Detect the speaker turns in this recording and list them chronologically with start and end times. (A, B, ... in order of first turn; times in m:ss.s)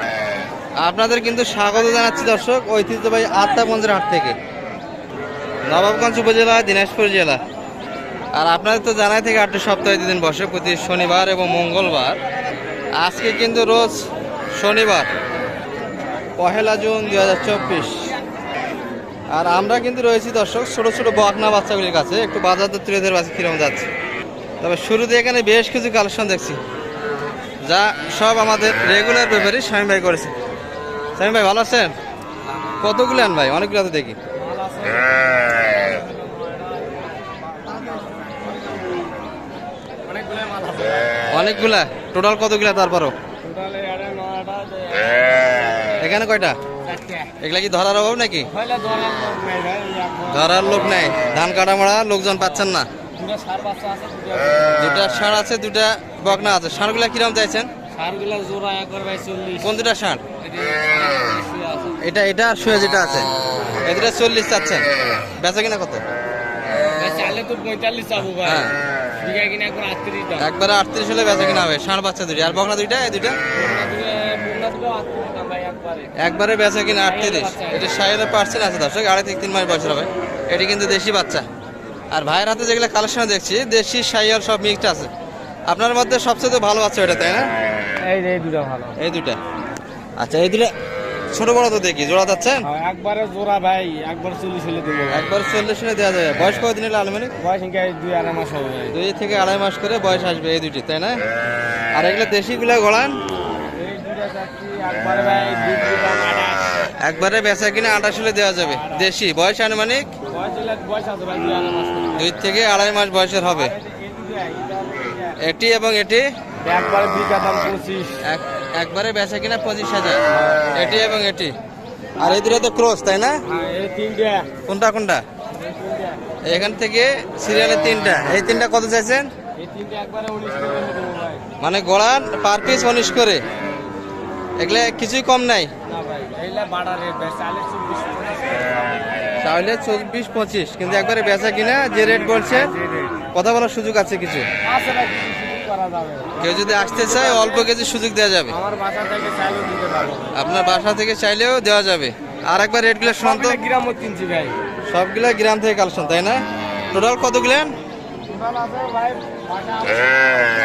0:00.8-0:04.4 A
0:05.6-0:07.4 A
0:08.3-0:12.2 A
0:13.0-0:15.1 A
0:16.4-0:18.1 A
0:19.3-0:23.9 A
0:24.6-0:26.6 A
0:27.6-0:30.3 A
0:31.2-0:31.9 A
0:32.8-0:34.2 A
0:34.3-0:39.0 B
0:40.0-0:41.2 B
0:41.3-0:43.1 A
0:43.4-0:46.2 B
0:46.0-0:46.6 A
0:46.8-0:47.3 B
0:47.4-0:48.5 A
0:48.5-0:51.0 B
0:50.3-0:52.9 A
0:52.3-0:55.0 B
0:54.8-0:57.7 A
0:57.9-0:59.8 B
0:59.6-1:00.2 A
1:00.4-1:02.0 B
1:02.0-1:03.3 A
1:03.8-1:04.8 A
1:05.4-1:06.0 A
1:06.9-1:10.5 B
1:08.4-1:08.7 A
1:10.4-1:13.4 A
1:13.5-1:16.1 B
1:16.2-1:21.4 A
1:16.9-1:17.9 B
1:22.1-1:25.1 A
1:25.7-1:27.5 A
1:28.0-1:29.0 B
1:29.0-1:29.4 A
1:30.2-1:30.7 A
1:31.3-1:32.6 A
1:32.6-1:35.3 B
1:35.1-1:37.3 A
1:37.4-1:39.0 B
1:38.9-1:41.2 A
1:41.9-1:43.1 A
1:43.7-1:46.6 B
1:47.0-1:50.1 A
1:48.6-1:49.1 B
1:50.3-1:52.4 B
1:52.2-1:53.7 A
1:53.4-1:55.4 B
1:55.4-1:56.3 A
1:56.6-1:58.2 B
1:58.2-2:01.5 A
2:00.3-2:00.7 B
2:02.2-2:03.4 A
2:03.4-2:04.5 B
2:04.6-2:05.2 A
2:05.5-2:06.4 B
2:06.4-2:09.3 A
2:09.6-2:11.4 B
2:11.6-2:13.4 A
2:14.6-2:15.7 A
2:15.9-2:19.2 B
2:19.4-2:22.7 A
2:22.0-2:23.2 B
2:23.3-2:24.5 A
2:24.6-2:27.7 B
2:26.4-2:28.6 A
2:28.5-2:30.4 B
2:30.3-2:33.6 A
2:33.0-2:34.6 B
2:34.9-2:37.7 A
2:38.3-2:40.5 B